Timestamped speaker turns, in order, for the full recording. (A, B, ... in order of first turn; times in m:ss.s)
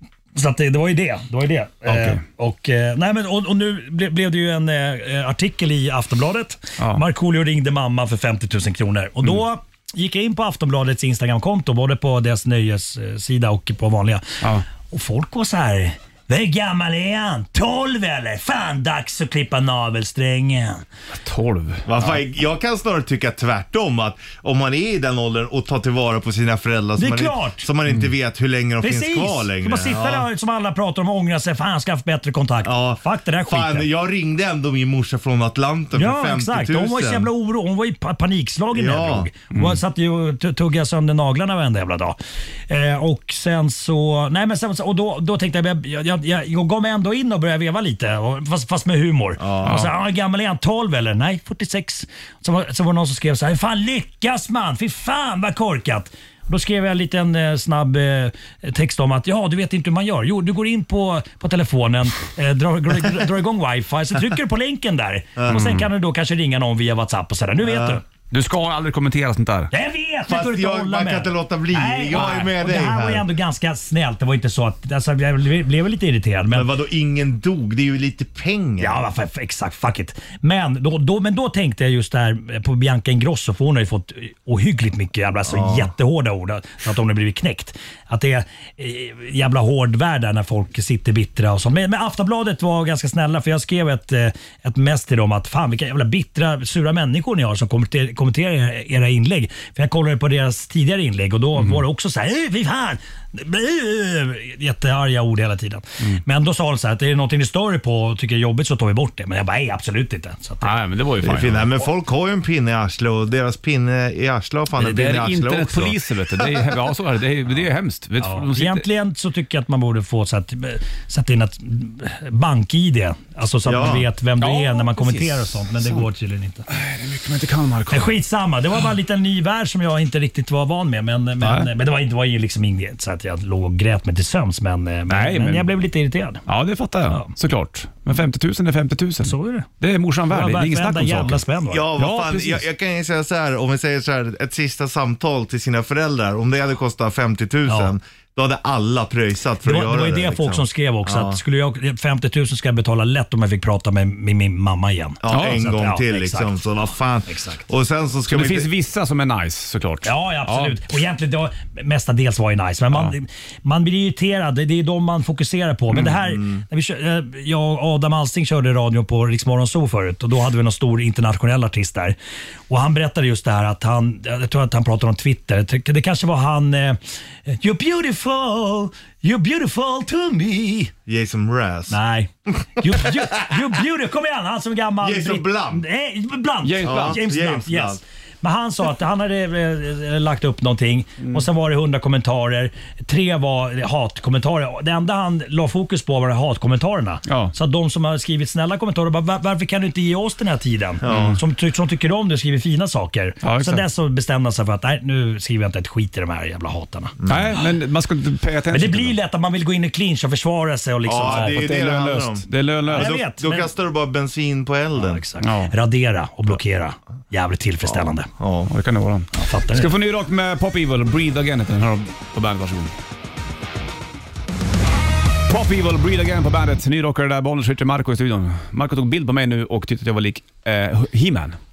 0:00.4-0:20.9 A
0:01.9-0:02.2 B
0:06.8-0:07.0 B
0:14.4-0:14.7 B
0:21.1-0:21.9 B
0:21.9-0:30.3 C
0:27.0-0:27.7 A
0:28.8-0:33.9 A
0:32.6-0:37.3 C
0:35.9-1:08.0 A
0:38.8-0:39.3 C
0:49.4-0:49.8 C
0:49.6-0:49.9 B
1:05.5-1:05.8 B
1:07.6-1:08.0 C
1:08.3-1:09.7 B
1:09.7-1:16.7 A
1:10.3-1:13.3 C
1:16.5-1:19.0 C
1:18.8-1:50.8 A
1:25.5-1:25.9 C
1:50.6-1:51.7 B
1:51.2-1:56.5 C
1:54.8-1:58.9 B
1:58.2-2:06.7 A
2:03.6-2:04.1 C
2:04.4-2:06.0 B
2:06.7-2:08.2 B
2:07.9-2:16.4 A
2:11.4-2:11.7 B
2:15.1-2:15.7 B
2:16.5-2:21.4 B
2:19.2-2:19.7 A
2:20.3-2:21.9 A
2:21.7-2:31.4 C
2:21.9-2:22.6 B
2:27.7-2:27.9 A
2:29.6-2:36.6 A
2:35.2-2:38.7 C
2:35.3-2:35.6 B
2:37.3-2:37.6 A
2:38.3-2:40.8 B
2:40.0-2:52.2 A
2:46.0-2:46.6 C
2:52.7-3:00.9 A
3:01.1-3:02.0 C
3:01.9-3:27.1 A
3:02.8-3:03.5 C
3:05.0-3:05.8 C
3:06.6-3:07.2 B
3:06.8-3:08.0 C
3:17.3-3:17.5 B
3:21.0-3:21.4 C
3:21.1-3:21.4 B
3:23.4-3:23.8 B
3:27.2-3:27.5 C
3:27.3-3:29.2 B
3:28.7-3:31.7 A
3:31.0-3:35.2 C
3:31.2-3:33.2 B
3:32.9-3:33.7 A
3:35.0-3:38.3 A
3:35.4-3:35.7 B
3:38.4-3:38.7 C
3:38.7-3:42.9 B
3:39.3-3:40.0 A
3:45.5-3:51.6 B